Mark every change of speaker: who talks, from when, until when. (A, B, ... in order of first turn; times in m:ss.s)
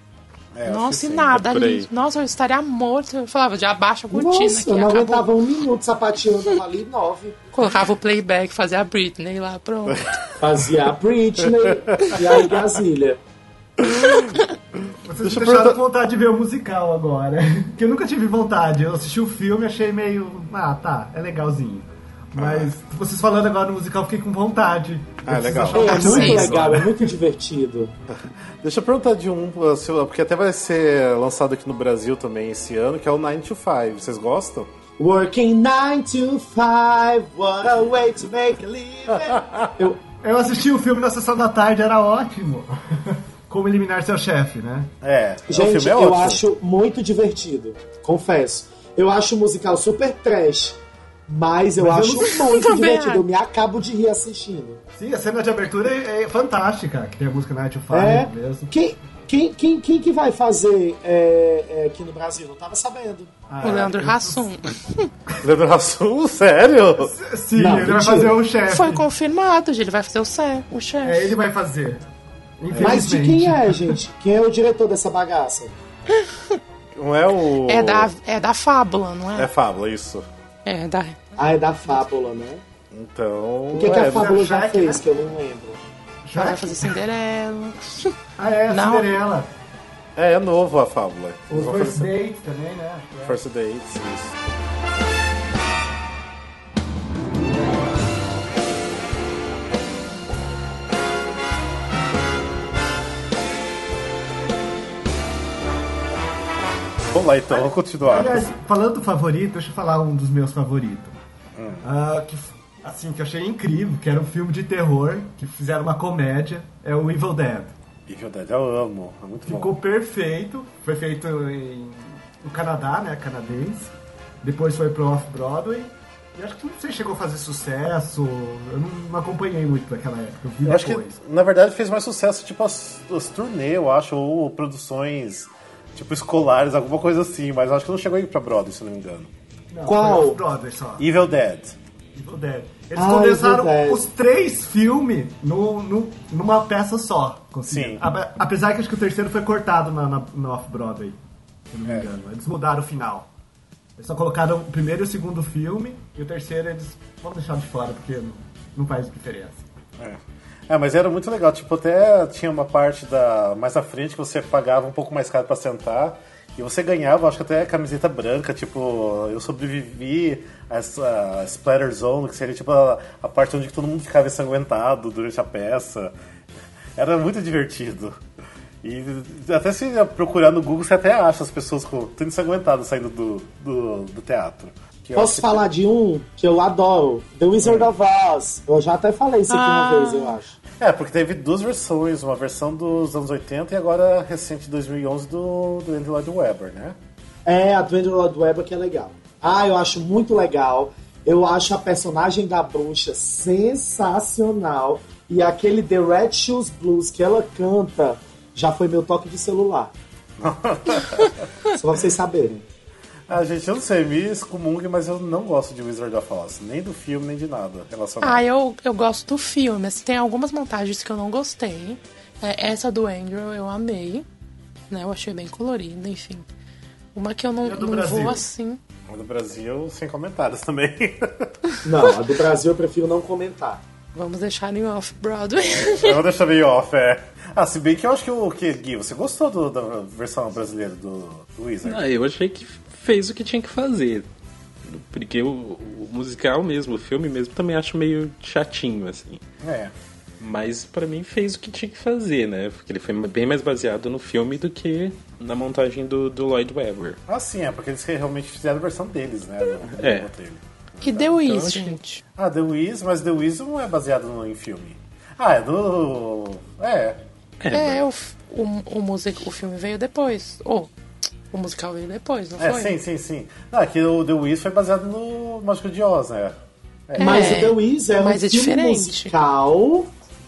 0:00.6-0:01.8 A
0:00.6-0:05.3 B
0:01.5-0:01.8 C
0:04.1-0:07.4 D
0:07.5-0:10.1 B
0:09.9-0:10.7 A
0:10.4-0:13.2 D
0:13.8-0:14.4 A
0:15.0-0:27.1 E
0:15.2-0:15.8 A
0:22.4-0:22.7 A
0:25.3-0:26.0 A
0:25.7-0:26.6 B
0:25.7-0:28.0 D
0:28.1-0:34.7 A
0:35.0-0:40.0 D
0:39.2-0:39.7 A
0:40.1-0:44.9 E
0:45.0-0:46.4 A
0:45.5-0:54.8 D
0:51.8-0:52.4 E
0:52.3-0:53.2 B
0:55.0-0:58.7 E
0:57.9-1:03.4 D
1:03.5-1:04.5 E
1:03.6-1:05.1 B
1:05.4-1:07.2 A
1:07.0-1:09.0 E
1:07.6-1:08.4 D
1:08.7-1:11.4 B
1:11.0-1:12.0 E
1:12.6-1:14.0 E
1:12.7-1:13.0 A
1:12.8-1:15.8 D
1:16.1-1:16.6 B
1:17.0-1:18.1 A
1:17.6-1:19.5 B
1:19.4-1:20.3 A
1:20.6-1:21.2 B
1:21.4-1:22.6 D
1:22.9-1:24.3 A
1:23.7-1:25.8 D
1:23.9-1:25.0 E
1:26.2-1:26.9 E
1:26.3-1:28.1 B
1:28.4-1:29.5 E
1:28.7-1:29.2 B
1:30.2-1:32.2 A
1:31.5-1:33.4 E
1:33.2-1:34.4 A
1:47.1-1:48.5 A
1:48.0-1:51.2 E
1:51.6-1:51.8 A
1:51.8-1:57.7 E
1:58.1-1:59.8 A
1:59.5-2:11.1 E
2:10.6-2:19.3 A
2:19.7-2:21.0 E
2:19.9-2:20.4 D
2:21.0-2:21.8 A
2:22.2-2:31.2 E
2:23.0-2:24.0 D
2:27.7-2:28.0 A
2:31.7-2:33.3 E
2:34.0-2:39.6 E
2:40.0-2:56.1 A
2:57.0-2:58.2 A
2:58.8-3:05.7 A
3:05.2-3:10.6 D
3:07.6-3:07.9 A
3:09.5-3:10.4 B
3:10.8-3:17.0 A
3:17.5-3:29.9 D
3:30.4-3:31.4 A
3:31.8-3:32.6 D
3:33.3-3:38.4 A
3:38.2-3:44.3 B
3:44.9-3:46.5 B
3:47.1-3:48.8 B
3:47.6-3:48.4 E
3:49.1-3:51.5 A
3:51.8-3:53.8 D
3:54.2-3:56.2 B
3:55.7-4:02.0 A
4:01.8-4:04.3 C
4:04.9-4:09.4 C
4:09.6-4:09.9 A
4:10.4-4:17.2 C
4:17.3-4:21.4 A
4:20.0-4:20.3 C
4:21.0-4:22.2 B
4:21.4-4:22.0 C
4:22.4-4:27.2 A
4:27.6-4:28.0 C
4:27.7-4:30.9 B
4:31.5-4:33.0 B
4:32.6-4:36.6 A
4:37.1-4:37.7 A
4:37.2-4:39.3 B
4:37.2-4:40.1 D